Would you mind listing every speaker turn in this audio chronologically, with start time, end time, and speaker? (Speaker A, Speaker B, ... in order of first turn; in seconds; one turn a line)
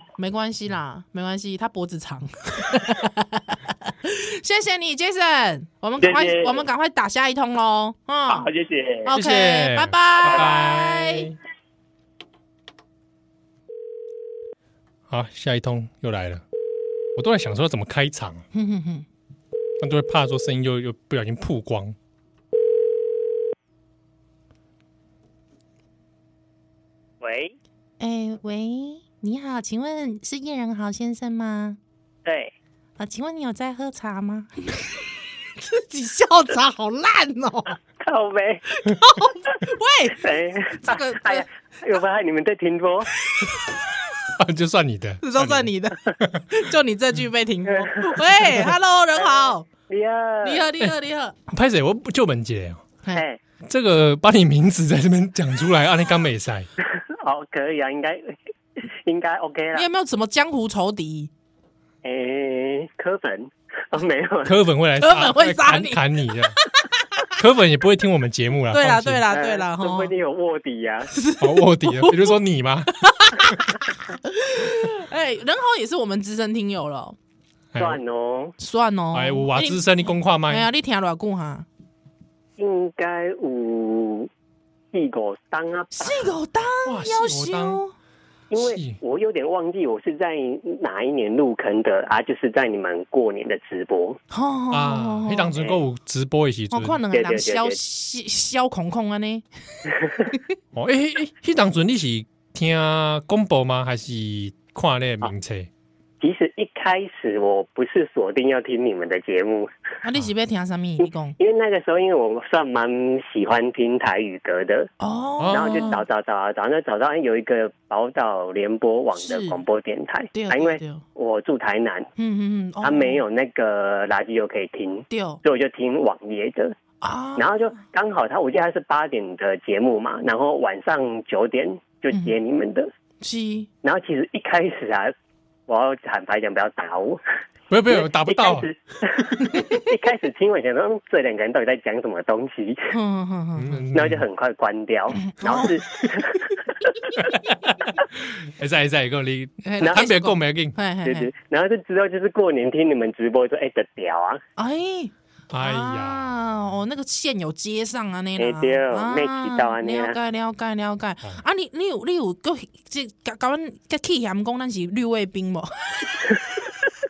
Speaker A: 0.2-8.5
Speaker B: 6.0-6.7
Speaker B: 8.3-9.1
Speaker A: 9.1-11.3
Speaker C: 9.1-11.4
Speaker B: 10.2-10.6
Speaker C: 15.1-16.4
Speaker C: 17.2-18.4
Speaker A: 18.5-19.1
Speaker C: 19.8-21.9
Speaker D: 27.2-27.6
Speaker A: 28.0-31.8
Speaker D: 32.2-32.5
Speaker A: 33.0-35.0
Speaker A: 35.6-37.8
Speaker D: 38.0-38.6
Speaker A: 38.8-41.5
Speaker D: 40.2-43.1
Speaker C: 44.4-46.4
Speaker A: 45.2-46.0
Speaker A: 46.5-49.6
Speaker D: 47.7-48.1
Speaker D: 49.2-50.7
Speaker A: 50.4-51.4
Speaker C: 51.5-52.9
Speaker D: 53.1-53.4
Speaker C: 53.6-56.7
Speaker D: 56.8-59.9
Speaker A: 59.7-61.3
Speaker D: 62.0-64.6
Speaker C: 64.5-66.5
Speaker A: 65.0-67.3
Speaker C: 67.4-69.2
Speaker A: 68.7-70.1
Speaker D: 69.3-71.1
Speaker A: 71.1-72.4
Speaker C: 71.4-72.9
Speaker A: 73.0-77.2
Speaker C: 77.7-78.0
Speaker D: 77.8-78.5
Speaker A: 78.6-79.8
Speaker C: 79.1-80.7
Speaker A: 80.5-81.7
Speaker D: 82.6-84.3
Speaker D: 84.9-86.3
Speaker A: 86.0-87.9
Speaker C: 86.8-87.8
Speaker D: 88.5-94.2
Speaker C: 88.6-89.0
Speaker A: 94.3-95.5
Speaker C: 94.7-97.0
Speaker A: 96.7-99.5
Speaker D: 97.1-97.8
Speaker C: 100.7-105.7
Speaker D: 106.2-109.7
Speaker A: 110.0-111.4
Speaker D: 111.0-114.9
Speaker A: 115.0-116.0
Speaker C: 115.4-115.8
Speaker D: 115.5-122.1
Speaker A: 119.2-119.6
Speaker A: 120.3-121.0
Speaker A: 122.2-123.2
Speaker D: 122.8-126.8
Speaker A: 125.1-125.4
Speaker A: 127.0-127.8
Speaker D: 127.4-132.9
Speaker A: 133.2-133.7
Speaker D: 133.8-135.1
Speaker D: 135.7-137.2
Speaker C: 137.7-138.7
Speaker D: 137.9-142.9
Speaker A: 142.9-143.8
Speaker C: 143.6-144.2
Speaker D: 143.9-146.9
Speaker A: 145.2-145.8
Speaker C: 147.2-150.8
Speaker A: 149.6-151.3
Speaker D: 151.0-154.4
Speaker A: 154.6-166.4
Speaker C: 155.5-156.5
Speaker D: 158.4-160.2